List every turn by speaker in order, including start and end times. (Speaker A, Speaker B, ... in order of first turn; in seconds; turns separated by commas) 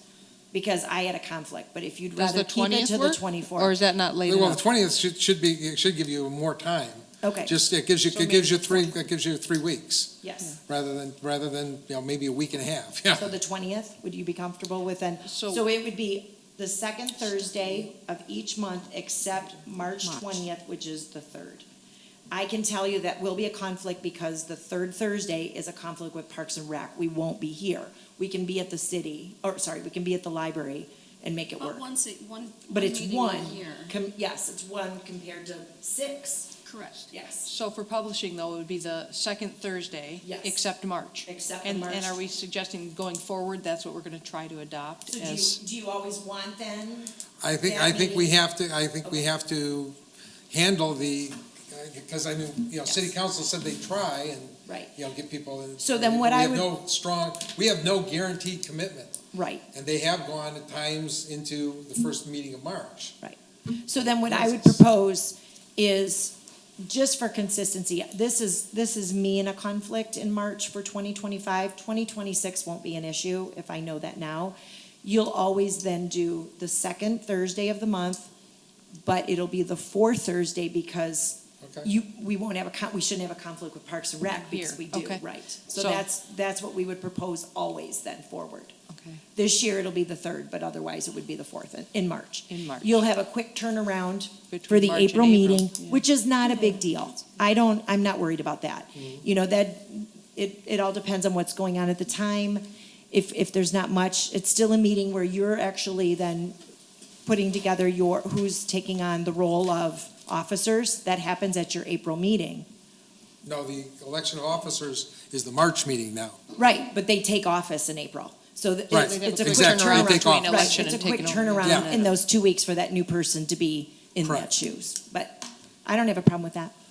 Speaker A: 0.5-3.8, Speaker B: 2.1-4.6, Speaker C: 4.3-13.3, Speaker A: 7.2-7.5, Speaker B: 8.1-8.9, Speaker A: 10.2-10.6, Speaker A: 13.1-21.6, Speaker B: 15.3-15.6, Speaker B: 20.1-20.4, Speaker A: 22.3-31.8, Speaker D: 31.6-33.9, Speaker A: 32.7-36.5, Speaker D: 36.6-37.0, Speaker A: 37.1-37.5, Speaker B: 37.5-45.6, Speaker A: 40.2-40.6, Speaker A: 41.3-42.1, Speaker A: 45.1-48.4, Speaker C: 47.4-50.0, Speaker A: 49.0-49.3, Speaker C: 50.5-59.2, Speaker A: 52.8-53.1, Speaker A: 54.7-54.9, Speaker A: 55.8-56.7, Speaker A: 59.3-59.6, Speaker C: 59.7-63.1, Speaker A: 63.2-78.3, Speaker C: 64.2-64.8, Speaker A: 79.0-88.7, Speaker C: 81.6-81.9, Speaker B: 84.3-86.0, Speaker B: 88.9-89.2, Speaker A: 89.3-106.6, Speaker B: 92.5-93.1, Speaker B: 94.5-96.0, Speaker D: 96.5-96.9, Speaker A: 107.2-112.7, Speaker C: 113.5-116.4, Speaker A: 116.6-126.7, Speaker C: 118.9-120.7, Speaker B: 118.9-122.1, Speaker C: 121.6-121.9, Speaker C: 124.2-124.5